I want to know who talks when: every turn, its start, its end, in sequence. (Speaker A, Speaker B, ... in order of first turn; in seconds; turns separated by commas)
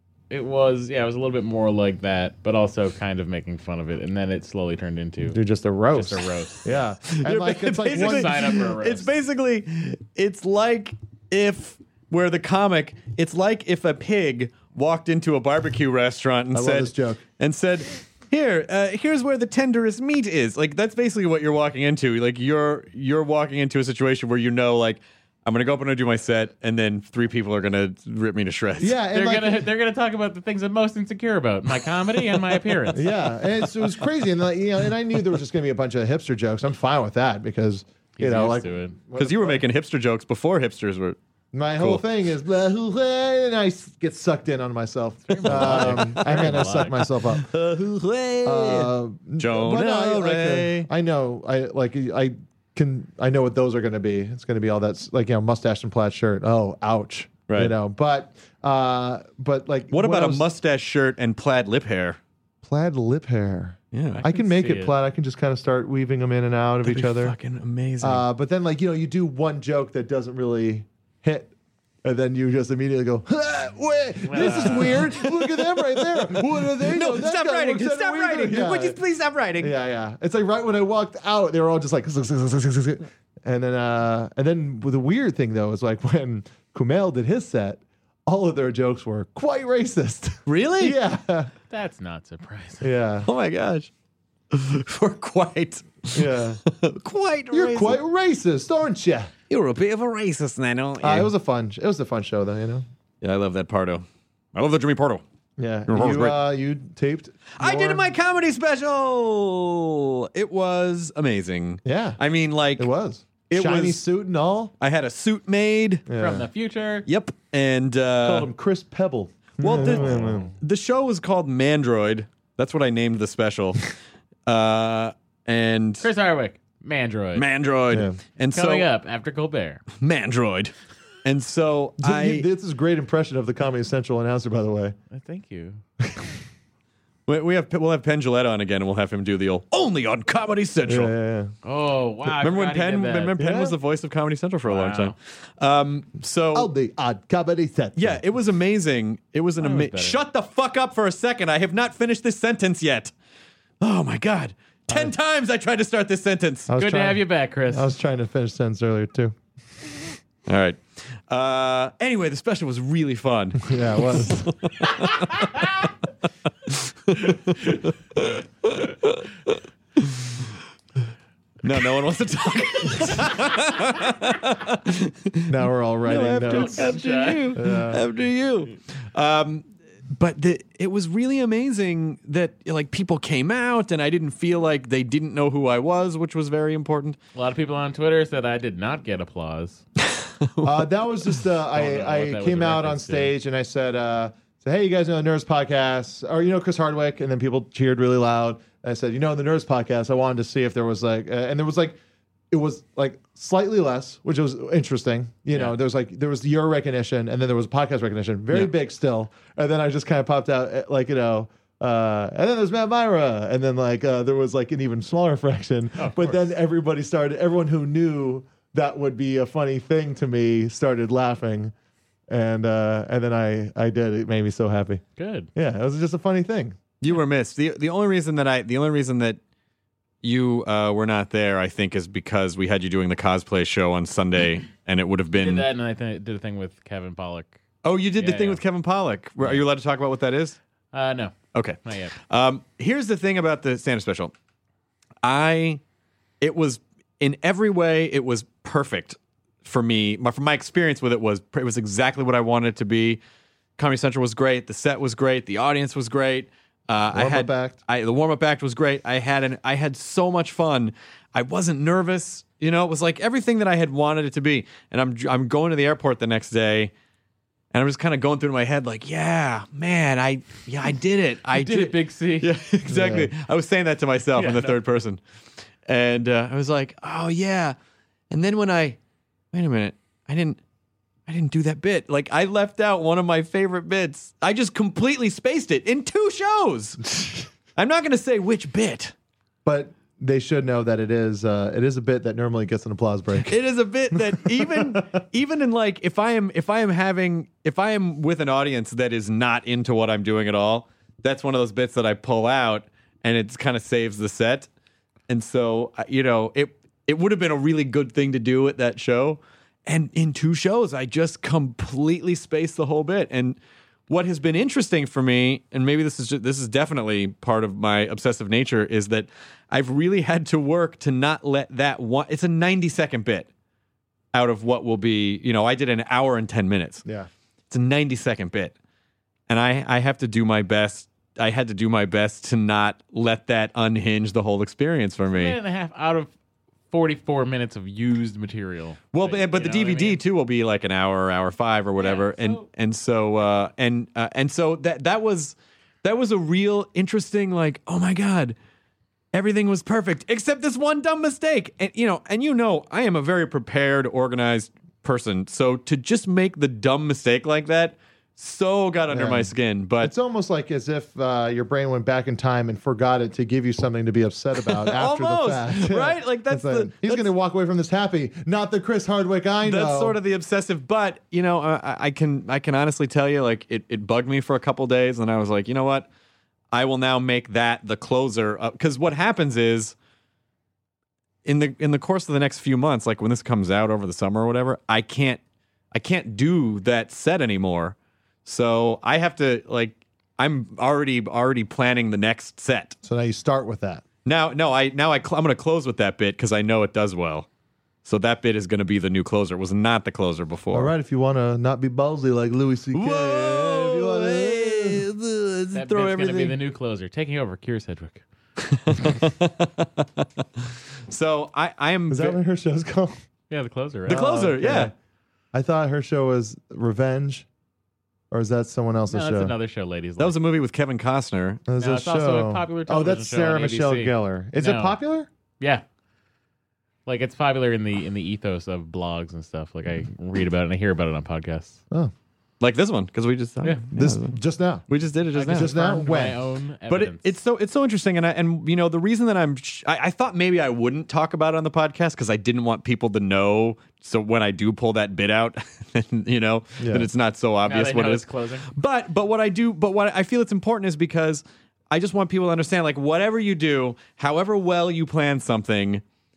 Speaker A: 0.3-5.4, Speaker B: 5.3-8.6, Speaker A: 6.0-6.7, Speaker C: 7.1-29.0, Speaker A: 8.0-9.1, Speaker B: 16.5-17.2, Speaker B: 28.8-29.7, Speaker A: 29.1-33.1, Speaker B: 32.9-39.6, Speaker A: 38.2-39.0, Speaker C: 39.2-41.2, Speaker B: 41.5-47.5, Speaker A: 45.3-47.0, Speaker C: 45.4-46.7, Speaker C: 47.3-50.9, Speaker B: 48.4-60.5, Speaker C: 57.5-57.8, Speaker C: 59.9-62.2, Speaker B: 62.6-67.4, Speaker C: 63.9-64.2, Speaker A: 64.2-64.9, Speaker C: 66.8-68.2, Speaker B: 68.0-71.5, Speaker B: 72.0-79.0, Speaker A: 74.2-75.0, Speaker C: 74.4-79.7, Speaker B: 79.6-91.5, Speaker C: 90.5-91.0, Speaker A: 91.7-92.9, Speaker B: 92.8-93.3, Speaker C: 93.3-93.9, Speaker C: 94.5-98.0, Speaker B: 96.1-96.6, Speaker B: 97.5-99.3, Speaker C: 99.5-101.3, Speaker B: 101.0-102.9, Speaker C: 103.2-105.2, Speaker B: 105.6-108.1, Speaker C: 105.9-106.4, Speaker C: 107.6-112.9, Speaker B: 111.8-112.2, Speaker B: 112.8-114.7, Speaker C: 113.4-114.0, Speaker C: 114.8-116.1, Speaker B: 116.1-116.5, Speaker A: 116.2-117.0, Speaker C: 117.1-118.5, Speaker B: 118.2-120.5, Speaker C: 119.6-123.9, Speaker A: 120.2-120.5, Speaker C: 124.5-126.1, Speaker A: 126.0-127.4, Speaker C: 127.4-128.9, Speaker B: 127.9-128.2, Speaker A: 128.5-129.8, Speaker C: 130.0-130.7, Speaker C: 131.2-132.5, Speaker B: 132.0-135.0, Speaker A: 135.1-135.8, Speaker C: 137.3-141.1, Speaker B: 140.9-141.5, Speaker A: 141.6-143.3, Speaker C: 142.3-146.7, Speaker B: 143.4-143.8, Speaker A: 144.7-145.2, Speaker B: 146.5-148.2, Speaker C: 148.0-153.1, Speaker A: 149.6-150.2, Speaker C: 153.8-156.7, Speaker B: 156.7-159.3, Speaker A: 156.8-157.9, Speaker C: 160.5-165.6, Speaker B: 163.6-164.4, Speaker C: 166.7-170.5, Speaker C: 171.6-187.2, Speaker B: 175.5-176.9, Speaker A: 176.4-177.6, Speaker B: 177.6-178.1, Speaker A: 187.3-189.8, Speaker C: 190.4-190.9, Speaker B: 190.6-202.0, Speaker A: 191.8-193.3, Speaker B: 202.5-221.7, Speaker A: 216.0-216.4, Speaker B: 222.3-225.0, Speaker A: 225.2-225.5, Speaker B: 225.6-226.8, Speaker C: 227.0-229.4, Speaker C: 230.2-235.7, Speaker A: 235.4-237.6, Speaker C: 237.8-240.6, Speaker A: 238.2-238.6, Speaker A: 240.9-242.2, Speaker C: 241.5-244.3, Speaker C: 245.2-245.8, Speaker C: 246.4-253.2, Speaker C: 253.8-266.9, Speaker B: 257.1-257.8, Speaker C: 267.7-275.2, Speaker A: 271.6-272.5, Speaker B: 272.9-273.3, Speaker A: 274.4-274.8, Speaker C: 275.9-277.8, Speaker C: 278.3-279.0, Speaker C: 279.5-280.6, Speaker C: 281.3-289.1, Speaker B: 289.6-293.6, Speaker C: 293.5-304.7, Speaker B: 294.1-295.0, Speaker C: 305.3-313.6, Speaker C: 314.1-323.5, Speaker C: 324.3-327.0, Speaker B: 327.1-327.3, Speaker C: 327.7-328.7, Speaker C: 329.5-335.6, Speaker A: 335.3-336.3, Speaker A: 336.9-340.2, Speaker C: 339.1-348.6, Speaker A: 342.0-342.7, Speaker C: 349.3-360.1, Speaker B: 359.1-370.2, Speaker C: 364.7-367.3, Speaker C: 369.6-376.1, Speaker C: 376.7-379.9, Speaker C: 381.4-385.4, Speaker C: 385.9-393.0, Speaker B: 393.0-394.0, Speaker C: 394.2-397.5, Speaker C: 398.1-400.9, Speaker B: 400.7-405.0, Speaker C: 402.9-406.6, Speaker A: 405.7-408.2, Speaker C: 408.6-410.2, Speaker C: 411.1-412.4, Speaker B: 412.1-413.2, Speaker A: 413.5-414.2, Speaker C: 414.1-414.9, Speaker B: 414.1-414.9, Speaker B: 415.5-417.5, Speaker B: 418.3-419.5, Speaker A: 419.1-420.4, Speaker C: 420.2-421.6, Speaker B: 421.7-425.3, Speaker A: 421.8-425.0, Speaker A: 427.1-431.8, Speaker C: 432.6-435.7, Speaker B: 434.0-434.9, Speaker A: 435.4-437.3, Speaker B: 435.5-436.4, Speaker C: 436.9-456.0, Speaker B: 446.8-447.1, Speaker A: 447.7-448.7